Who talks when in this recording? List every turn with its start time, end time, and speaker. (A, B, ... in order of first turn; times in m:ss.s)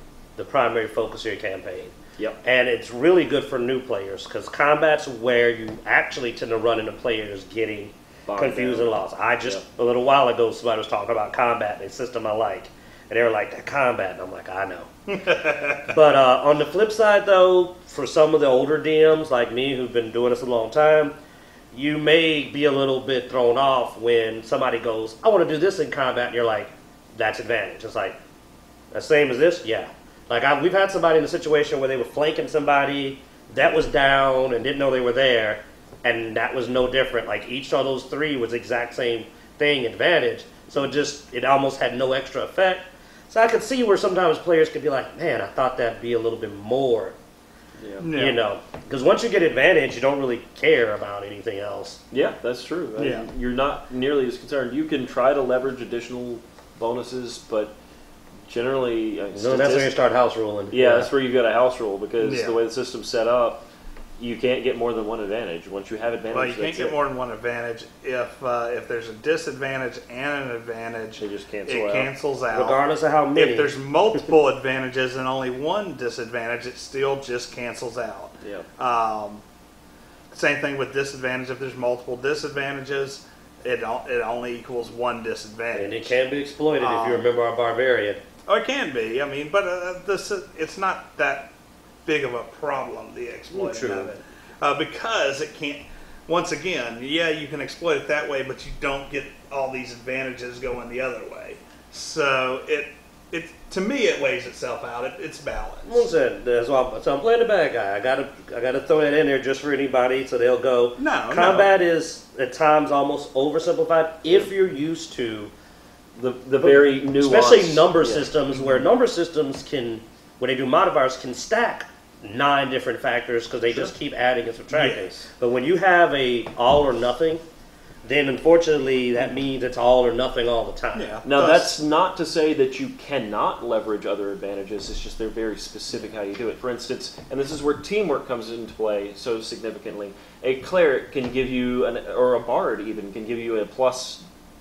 0:00.4-0:14.9 A
0:08.3-0:08.9 B
0:15.1-0:15.9 C
0:15.9-0:21.1 A
0:21.7-0:28.2 A
0:28.9-0:47.2 A
0:47.8-0:48.0 B
0:48.0-0:48.4 C
0:48.1-0:52.0 A
0:52.1-0:57.7 B
0:53.0-0:53.3 C
0:58.5-0:59.9 B
0:59.3-1:01.1 A
1:00.7-1:03.6 B
1:02.2-1:02.6 C
1:04.2-1:07.0 B
1:06.3-1:12.8 C
1:11.2-1:12.1 B
1:12.5-1:13.7 A
1:13.3-1:19.4 C
1:18.4-1:18.7 B
1:20.3-1:26.1 C
1:25.7-1:28.2 A
1:26.8-1:27.3 C
1:28.5-1:31.5 C
1:32.0-1:46.1 C
1:33.5-1:34.1 A
1:45.8-1:55.5 A
1:51.0-1:51.7 C
1:56.2-1:58.3 B
1:56.6-2:07.4 A
2:04.7-2:05.3 C
2:08.0-2:11.1 A
2:10.9-2:11.7 C
2:11.2-2:24.2 B